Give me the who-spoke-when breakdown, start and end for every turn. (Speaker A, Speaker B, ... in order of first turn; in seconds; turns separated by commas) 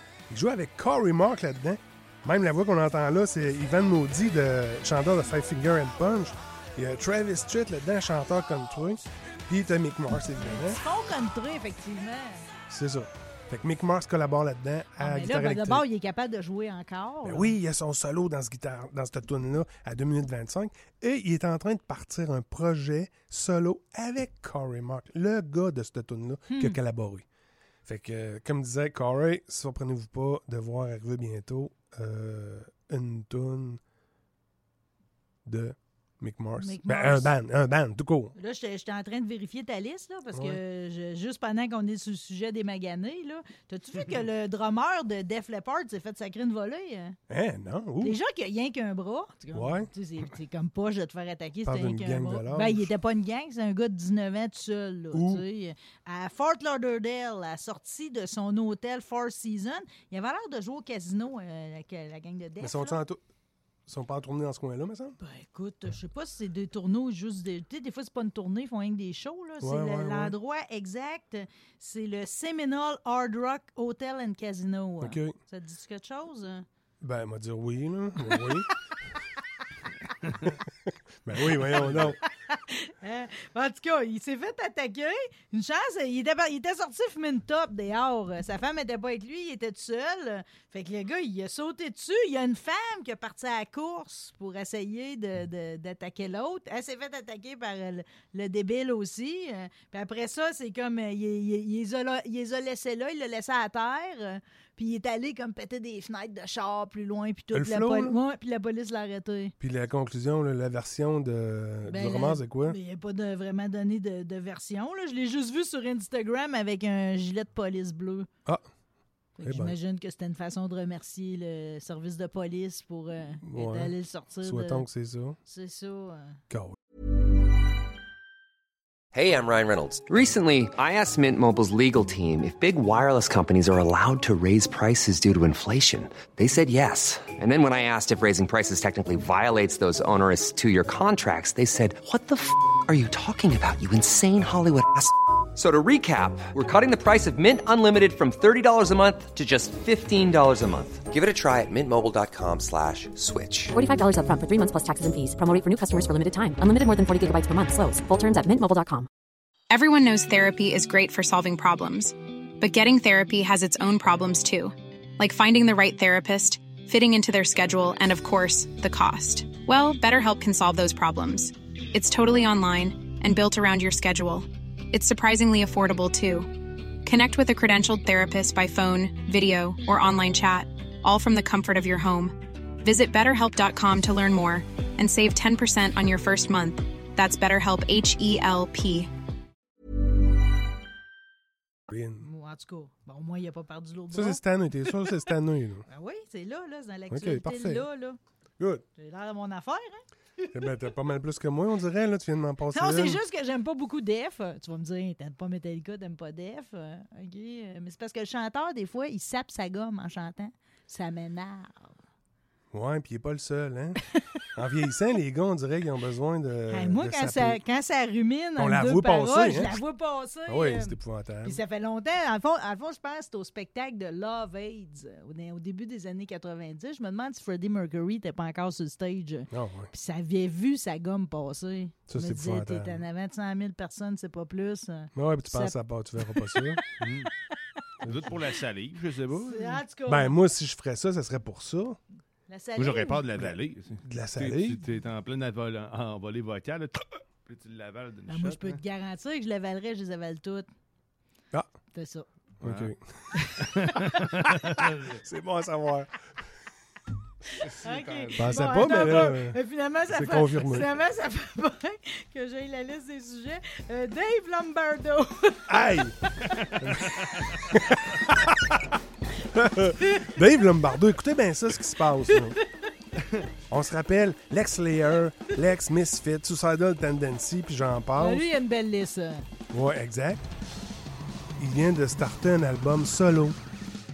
Speaker A: 0.3-10.8, Speaker B: 10.4-12.5, Speaker A: 12.7-15.8, Speaker B: 15.0-17.6, Speaker A: 17.2-27.2, Speaker B: 26.5-26.8, Speaker A: 27.8-33.8, Speaker A: 35.5-38.3, Speaker B: 36.6-37.3, Speaker B: 38.4-47.2, Speaker A: 40.3-40.6, Speaker A: 47.3-48.2, Speaker B: 48.0-63.0, Speaker A: 49.5-49.9, Speaker A: 51.6-52.9, Speaker A: 55.1-55.4, Speaker A: 62.6-63.2, Speaker A: 63.9-65.2, Speaker B: 65.2-76.7, Speaker A: 69.6-70.3, Speaker A: 75.0-75.3, Speaker A: 77.0-78.7, Speaker B: 78.2-78.6, Speaker A: 81.2-82.2, Speaker B: 81.4-109.5, Speaker A: 107.5-108.2, Speaker A: 109.6-112.8, Speaker B: 111.9-118.3, Speaker B: 119.4-124.8, Speaker A: 119.4-119.7, Speaker A: 123.4-125.4, Speaker B: 125.5-126.4, Speaker A: 126.5-126.8, Speaker C: 129.1-153.7, Speaker D: 153.7-159.1, Speaker E: 159.7-176.5, Speaker E: 177.0-189.1, Speaker A: 191.9-192.3, Speaker B: 192.2-194.4, Speaker A: 194.1-195.8, Speaker B: 195.9-198.2, Speaker A: 197.1-197.9, Speaker A: 198.6-198.8, Speaker B: 198.9-200.5, Speaker A: 200.5-203.2, Speaker B: 202.7-212.0, Speaker A: 212.7-214.0, Speaker A: 214.5-217.6, Speaker B: 216.7-236.8, Speaker A: 218.6-219.8, Speaker A: 220.5-221.6, Speaker A: 229.5-229.9, Speaker A: 232.1-233.0, Speaker A: 235.1-236.8, Speaker F: 237.0-237.3, Speaker A: 238.0-238.3, Speaker F: 238.0-239.8, Speaker B: 239.4-240.3, Speaker A: 240.1-242.0, Speaker B: 242.5-243.2, Speaker F: 242.8-248.8, Speaker A: 243.4-244.8, Speaker B: 248.3-250.7, Speaker B: 251.9-252.2, Speaker A: 252.6-253.0, Speaker F: 252.6-252.9, Speaker B: 253.3-254.0, Speaker F: 253.6-255.1, Speaker A: 253.9-256.1, Speaker F: 257.6-259.3, Speaker B: 257.8-265.9, Speaker A: 258.4-260.9, Speaker A: 265.7-266.2, Speaker A: 266.8-268.8, Speaker F: 267.1-267.6, Speaker A: 269.5-272.6, Speaker B: 270.0-270.3, Speaker B: 272.3-272.6, Speaker A: 273.7-278.5, Speaker B: 278.2-279.5, Speaker A: 279.7-280.5, Speaker A: 281.6-283.6